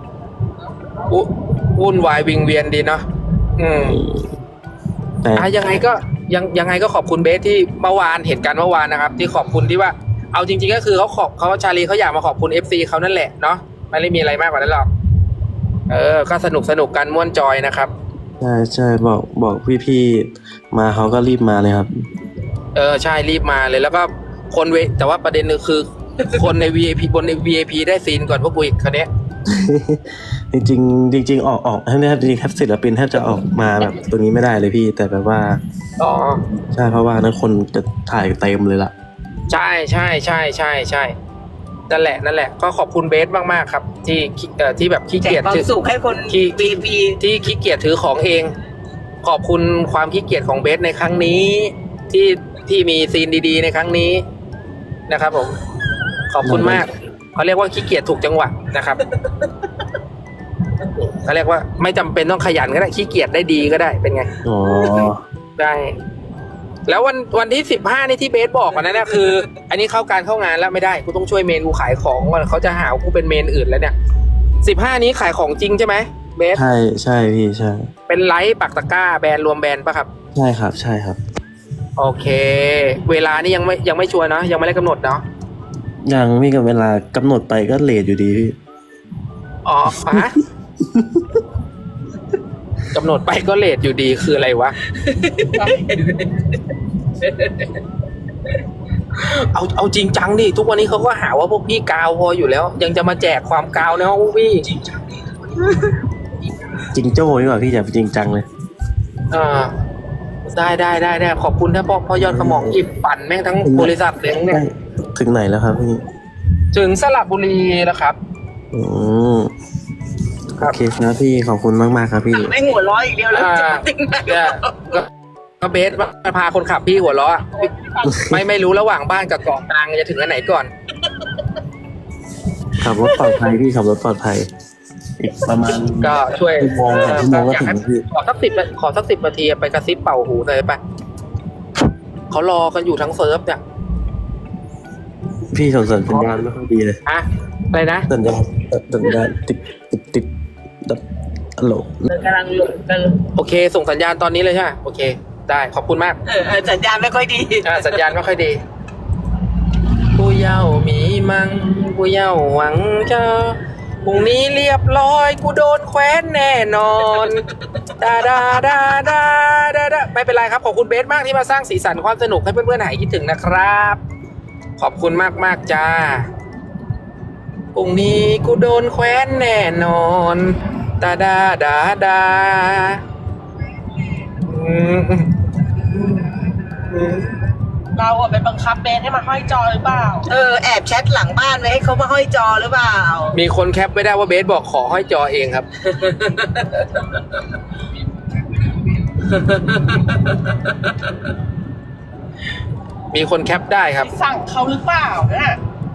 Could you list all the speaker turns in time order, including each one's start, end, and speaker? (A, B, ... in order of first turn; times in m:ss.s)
0:01.1-0:03.0 A
0:03.6-0:04.0 A
0:03.8-0:04.3 B
0:05.2-0:05.8 B
0:05.3-0:14.9 A
0:15.9-0:17.9 A
0:18.4-0:22.1 B
0:22.7-0:29.1 A
0:29.5-0:35.6 B
0:36.0-0:36.4 A
0:36.5-0:38.9 B
0:39.5-0:41.1 A
0:41.9-0:45.7 A
0:45.2-0:47.2 C
0:46.3-0:48.5 A
0:49.2-0:54.2 A
0:55.1-0:55.6 A
0:56.3-0:59.0 A
0:56.4-0:56.8 B
1:00.8-1:04.3 A
1:04.4-1:05.2 B
1:05.6-1:06.0 A
1:06.8-1:13.9 A
1:14.6-1:16.6 A
1:16.5-1:17.9 B
1:18.1-1:20.1 A
1:20.3-1:21.2 B
1:22.0-1:25.2 A
1:26.0-1:28.6 B
1:29.6-1:30.4 A
1:30.8-1:31.4 B
1:32.9-1:34.8 A
1:35.0-1:36.2 C
1:39.2-1:44.7 A
1:46.9-1:48.4 B
1:49.3-1:49.7 A
1:50.4-1:54.6 A
1:52.2-1:52.8 B
1:53.6-1:56.0 B
1:56.7-1:58.2 A
1:58.7-1:59.5 B
2:00.6-2:02.5 B
2:02.3-2:04.9 C
2:03.3-2:05.1 A
2:05.6-2:07.7 A
2:08.0-2:08.4 B
2:08.2-2:10.7 A
2:12.8-2:14.5 B
2:15.2-2:18.0 B
2:16.0-2:20.8 A
2:22.3-2:23.6 A
2:25.5-2:27.0 B
2:27.0-2:28.1 A
2:28.1-2:30.3 B
2:31.6-2:32.1 B
2:32.1-2:33.2 C
2:33.3-2:36.2 A
2:36.2-2:38.0 C
2:37.6-2:38.6 A
2:40.1-2:47.4 A
2:48.0-2:54.0 A
2:54.8-2:56.3 A
2:57.7-3:03.0 A
3:04.4-3:05.3 A
3:05.9-3:06.2 A
3:06.9-3:07.3 A
3:07.9-3:10.3 D
3:10.3-3:13.3 C
3:13.3-3:15.7 A
3:19.5-3:20.0 C
3:23.1-3:24.1 A
3:24.1-3:25.6 D